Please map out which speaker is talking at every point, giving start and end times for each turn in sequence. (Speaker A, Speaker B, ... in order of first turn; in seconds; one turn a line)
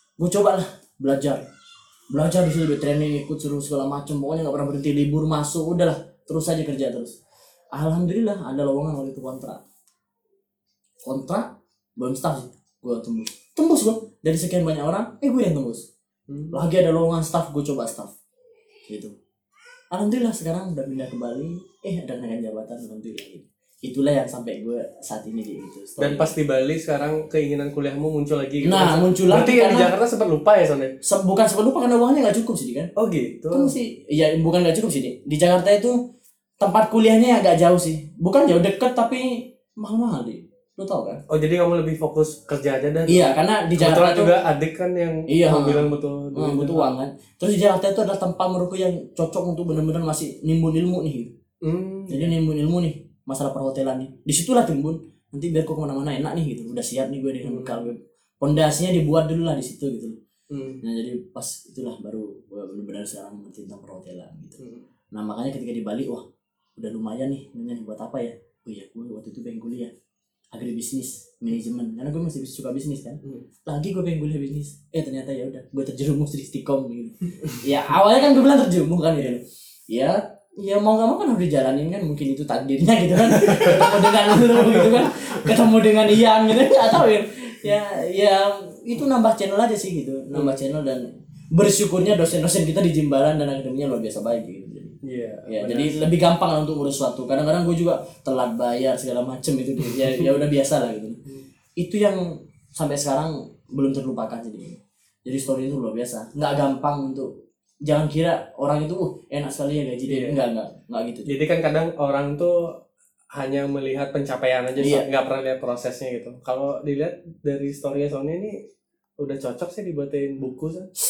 Speaker A: 0.2-1.4
Speaker A: 2.1-7.2
Speaker A: 7.7-9.6
Speaker A: 11.0-15.9
Speaker B: 16.3-16.6
Speaker A: 16.5-18.1
Speaker A: 18.9-19.1
Speaker A: 19.9-26.3
Speaker B: 26.0-30.9
Speaker A: 28.6-29.9
Speaker A: 31.0-32.9
Speaker B: 33.0-33.7
Speaker A: 33.5-36.0
Speaker A: 36.6-41.2
Speaker B: 41.3-46.9
Speaker A: 43.1-44.3
Speaker A: 45.3-51.3
Speaker B: 51.6-52.3
Speaker A: 52.1-60.2
Speaker B: 57.4-57.9
Speaker B: 60.5-60.8
Speaker A: 60.8-64.6
Speaker B: 64.6-64.8
Speaker A: 65.1-69.9
Speaker A: 70.5-101.2
Speaker B: 83.3-84.9
Speaker B: 90.3-90.6
Speaker B: 95.0-96.0
Speaker B: 99.8-100.3
Speaker A: 101.8-107.3
Speaker A: 107.8-111.3
Speaker B: 110.1-110.4
Speaker B: 111.2-112.7
Speaker B: 113.3-118.5
Speaker A: 114.8-115.0
Speaker B: 119.2-120.9